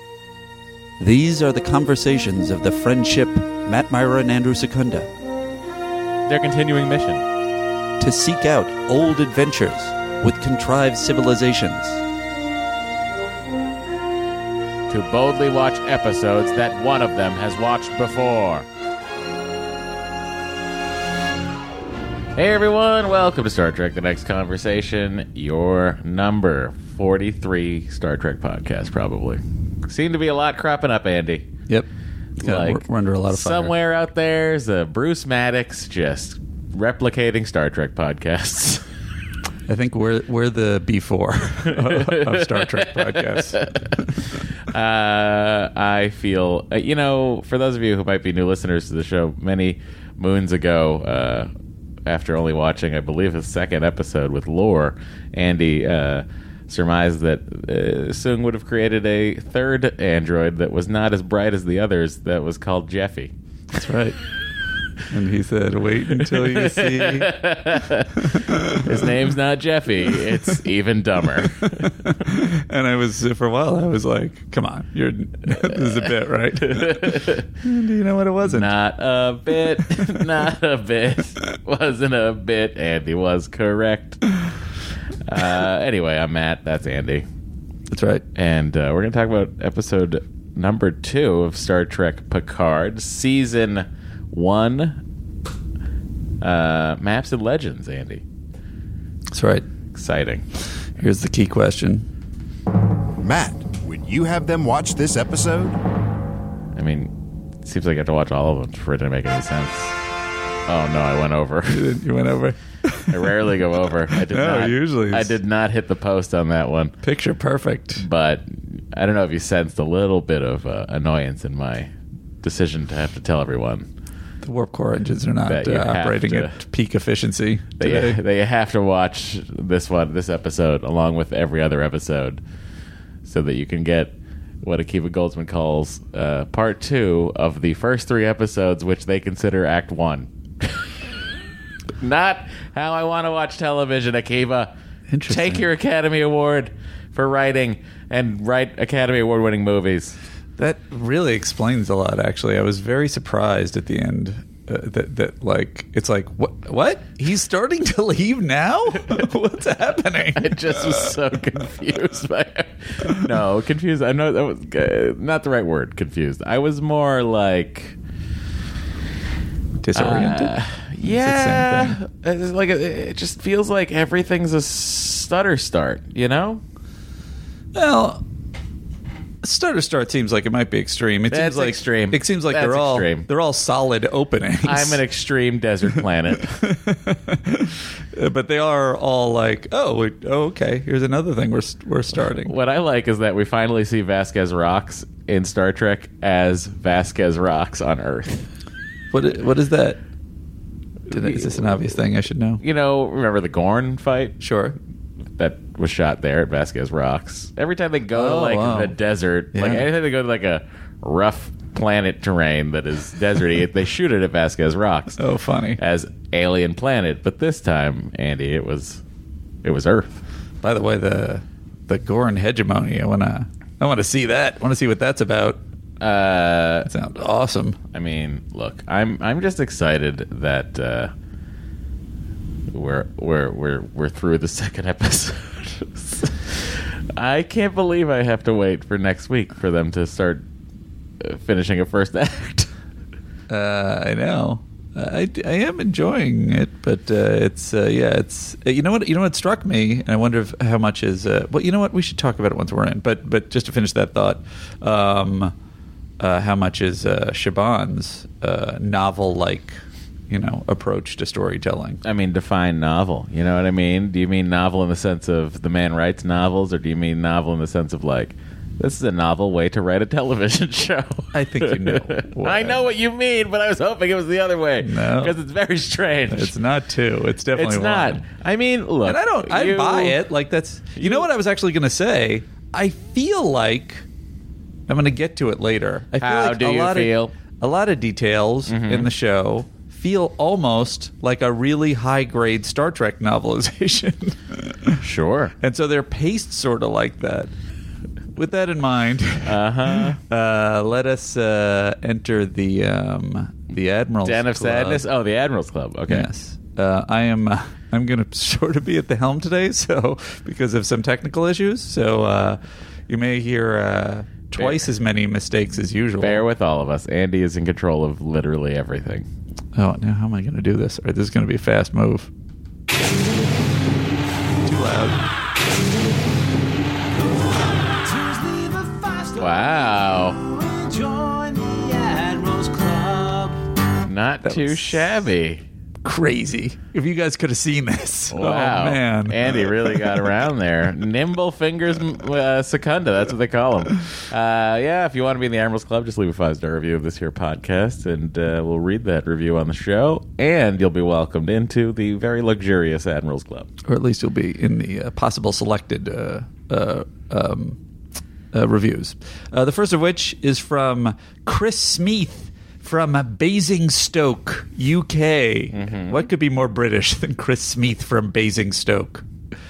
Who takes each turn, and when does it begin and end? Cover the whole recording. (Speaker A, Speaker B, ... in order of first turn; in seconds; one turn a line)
Speaker A: 1.0-5.1
Speaker B: 6.2-7.2
Speaker A: 8.0-12.0
Speaker B: 14.9-18.6
Speaker B: 22.4-31.5
Speaker A: 32.4-33.7
Speaker B: 32.4-38.8
Speaker A: 39.7-43.6
Speaker B: 41.6-51.5
Speaker B: 52.0-63.3
Speaker A: 63.8-64.2
Speaker A: 65.1-67.3
Speaker B: 66.1-71.9
Speaker A: 68.3-68.9
Speaker A: 70.1-70.5
Speaker A: 71.8-78.7
Speaker B: 75.6-76.0
Speaker B: 76.6-77.5
Speaker B: 78.4-84.2
Speaker A: 79.8-80.1
Speaker B: 85.2-87.3
Speaker A: 87.9-88.2
Speaker B: 88.3-95.0
Speaker B: 96.4-98.2
Speaker A: 99.3-99.7
Speaker B: 99.9-100.5
Speaker A: 101.0-102.0
Speaker C: 103.2-105.8
Speaker B: 106.7-110.0
Speaker B: 110.7-111.9
Speaker A: 111.7-113.5
Speaker B: 113.1-116.9
Speaker A: 114.1-115.4
Speaker A: 117.0-118.0
Speaker B: 118.0-121.9
Speaker B: 122.4-123.9
Speaker A: 124.4-128.2
Speaker B: 125.4-126.6
Speaker B: 127.8-132.4
Speaker B: 133.2-140.7
Speaker B: 142.0-144.7
Speaker A: 145.1-145.7
Speaker B: 145.3-150.2
Speaker A: 150.6-161.1
Speaker B: 160.3-168.0
Speaker A: 169.8-172.0
Speaker B: 169.9-176.6
Speaker A: 177.7-178.2
Speaker A: 179.4-185.0
Speaker B: 181.3-183.3
Speaker B: 184.6-186.7
Speaker A: 186.6-192.5
Speaker B: 192.2-198.5
Speaker A: 199.1-200.0
Speaker A: 201.1-202.6
Speaker B: 201.1-201.8
Speaker B: 202.6-204.4
Speaker A: 204.4-204.8
Speaker B: 205.4-215.2
Speaker A: 208.1-208.9
Speaker A: 209.5-209.9
Speaker A: 215.2-215.8
Speaker B: 215.8-219.0
Speaker B: 219.6-220.2
Speaker A: 220.6-225.6
Speaker B: 226.0-226.9
Speaker A: 226.8-227.8
Speaker B: 227.9-231.1
Speaker B: 232.7-240.4
Speaker B: 241.2-242.7
Speaker A: 243.5-255.5
Speaker A: 256.2-259.8
Speaker A: 260.3-262.0
Speaker B: 262.0-276.5
Speaker A: 271.3-272.8
Speaker A: 274.8-275.4
Speaker A: 276.3-278.2
Speaker B: 277.5-280.2
Speaker A: 279.0-284.1
Speaker B: 280.9-281.3
Speaker A: 284.9-295.0
Speaker B: 286.2-287.3
Speaker B: 288.7-289.1
Speaker B: 295.0-295.5
Speaker A: 295.6-297.5
Speaker A: 298.4-305.0
Speaker B: 299.4-300.2
Speaker B: 304.2-306.3
Speaker A: 306.1-316.4
Speaker B: 314.6-314.9
Speaker B: 316.2-319.3
Speaker A: 319.7-322.3
Speaker A: 324.6-325.2
Speaker D: 327.1-333.7
Speaker B: 329.4-330.4
Speaker B: 334.0-335.6
Speaker A: 334.4-334.9
Speaker A: 336.0-340.3
Speaker B: 338.3-353.7
Speaker A: 353.9-357.8
Speaker A: 358.5-369.2
Speaker B: 365.7-366.3